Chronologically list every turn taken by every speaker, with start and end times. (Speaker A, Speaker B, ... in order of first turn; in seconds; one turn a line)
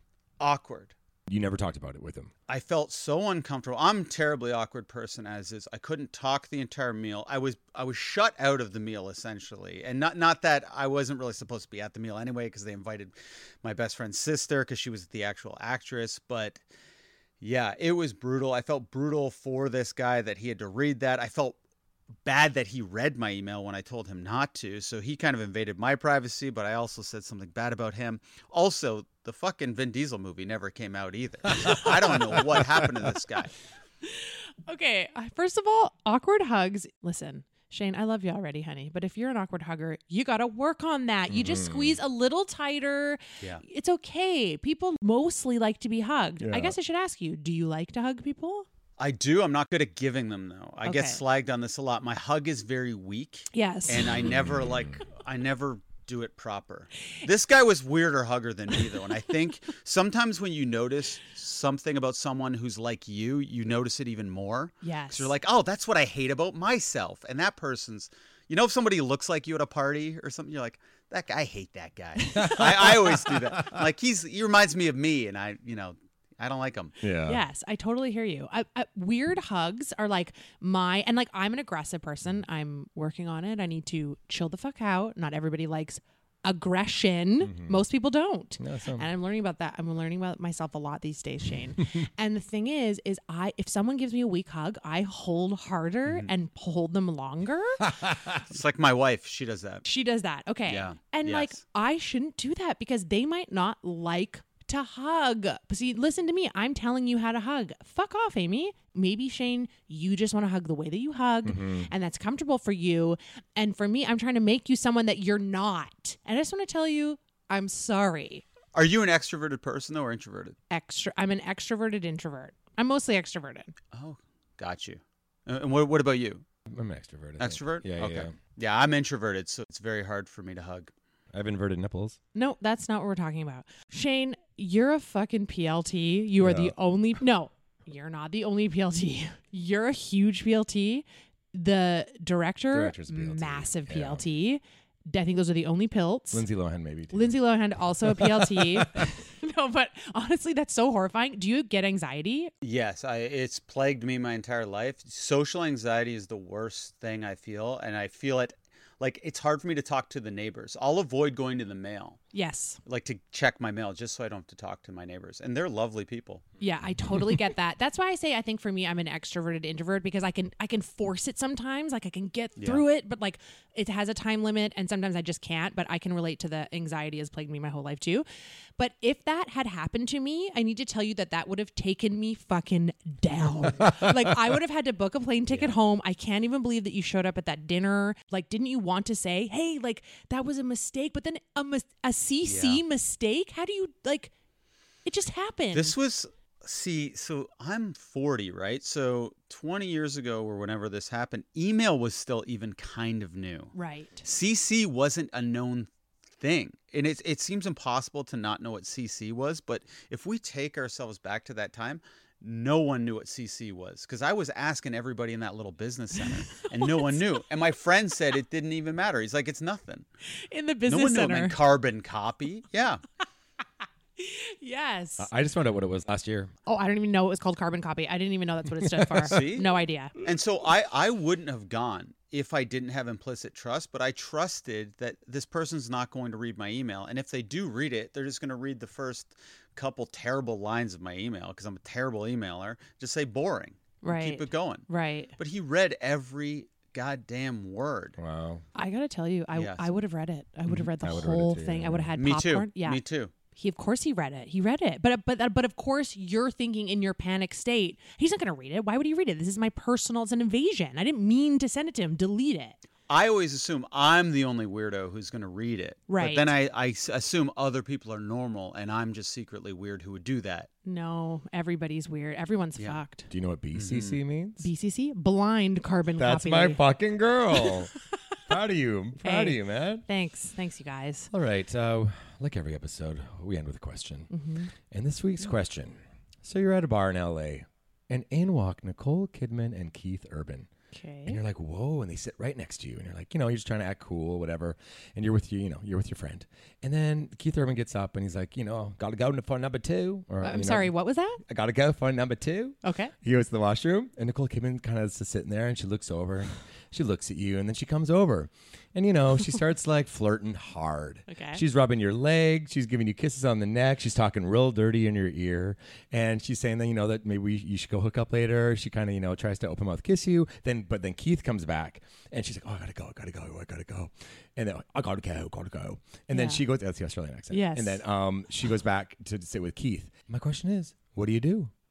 Speaker A: 0.4-0.9
Speaker B: 1.3-2.3
Speaker A: 2.5-16.6
Speaker A: 17.4-21.6
Speaker A: 22.2-33.5
Speaker C: 34.0-48.7
Speaker B: 41.3-42.0
Speaker B: 46.4-46.8
Speaker A: 49.0-76.9
Speaker C: 50.8-51.2
Speaker C: 53.5-54.2
Speaker B: 54.1-55.0
Speaker C: 64.8-65.3
Speaker B: 72.4-73.8
Speaker B: 77.0-77.4
Speaker C: 77.3-97.8
Speaker B: 87.4-87.8
Speaker B: 88.6-89.1
Speaker A: 98.4-99.9
Speaker C: 99.8-118.5
Speaker A: 100.7-101.6
Speaker B: 111.5-111.9
Speaker A: 118.7-120.6
Speaker C: 120.7-123.7
Speaker A: 123.9-126.5
Speaker B: 126.7-128.3
Speaker A: 127.4-130.9
Speaker B: 131.3-132.2
Speaker C: 132.3-146.5
Speaker B: 136.4-136.8
Speaker B: 142.7-144.3
Speaker B: 146.3-149.1
Speaker C: 147.1-152.5
Speaker A: 152.6-162.2
Speaker C: 162.3-162.8
Speaker A: 162.9-166.4
Speaker C: 166.6-178.3
Speaker B: 167.1-167.3
Speaker A: 172.6-172.8
Speaker C: 178.8-194.3
Speaker A: 192.4-192.8
Speaker C: 195.1-196.0
Speaker A: 195.7-220.1
Speaker C: 203.7-204.2
Speaker C: 216.4-217.2
Speaker C: 220.5-221.6
Speaker A: 220.9-223.0
Speaker C: 224.2-225.3
Speaker B: 225.2-226.5
Speaker C: 226.7-230.1
Speaker B: 228.7-229.4
Speaker A: 229.3-244.9
Speaker C: 244.0-245.3
Speaker A: 245.4-248.2
Speaker B: 248.2-248.6
Speaker C: 248.8-253.0
Speaker A: 249.5-249.9
Speaker B: 250.7-252.1
Speaker A: 252.2-253.3
Speaker C: 253.6-262.8
Speaker A: 263.1-270.7
Speaker C: 266.1-266.5
Speaker C: 270.9-273.3
Speaker B: 273.3-274.7
Speaker A: 273.7-274.2
Speaker C: 274.6-276.8
Speaker B: 276.2-277.9
Speaker B: 278.5-280.1
Speaker C: 279.2-281.3
Speaker B: 281.3-284.3
Speaker C: 284.3-284.7
Speaker B: 284.9-290.7
Speaker C: 290.9-291.4
Speaker B: 291.3-331.7
Speaker C: 300.4-301.4
Speaker C: 302.8-303.1
Speaker C: 311.3-311.6
Speaker C: 326.3-326.6
Speaker C: 327.5-328.0